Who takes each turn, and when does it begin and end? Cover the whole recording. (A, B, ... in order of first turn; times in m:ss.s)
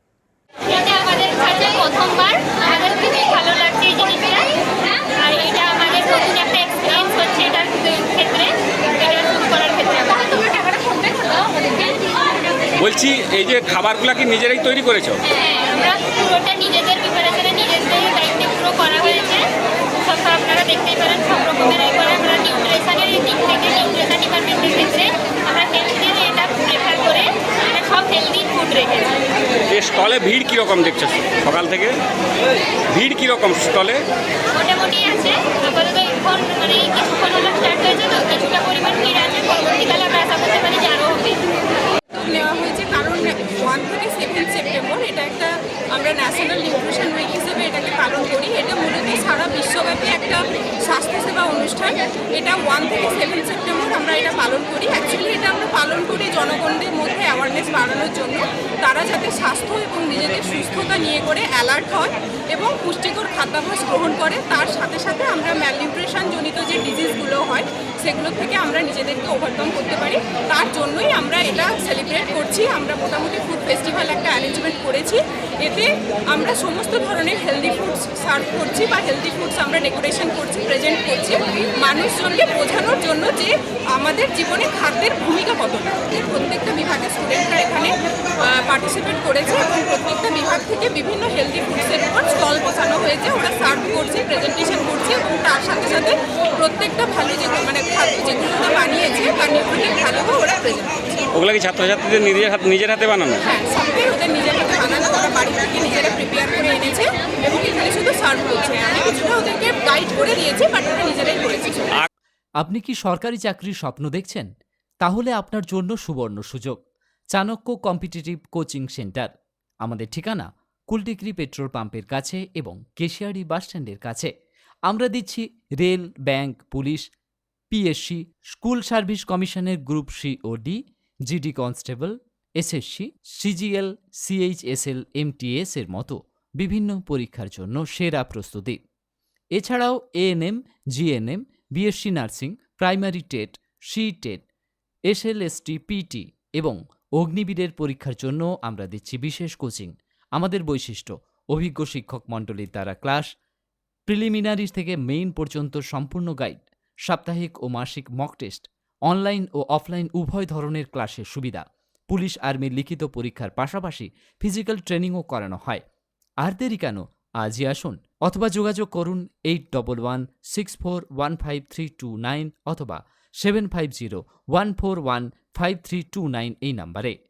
0:00.7-0:12.3 A
0:12.8-0:15.2 B
0:15.2-0:19.5 A
0:20.0-0:29.2 A
0:29.7-0:32.0 B
0:32.9-0:34.0 B
0:34.5-0:41.4 A
0:42.1-1:41.2 C
1:41.3-1:43.4 B
1:43.4-1:52.0 C
1:52.6-1:54.5 D
1:55.0-1:56.8 D
1:57.3-1:59.3 D
1:59.8-2:04.3 D
2:04.9-2:07.0 D
2:07.7-2:18.8 D
2:19.6-2:24.4 D
2:25.1-2:33.3 D
2:34.1-2:45.8 D
2:46.4-2:57.1 D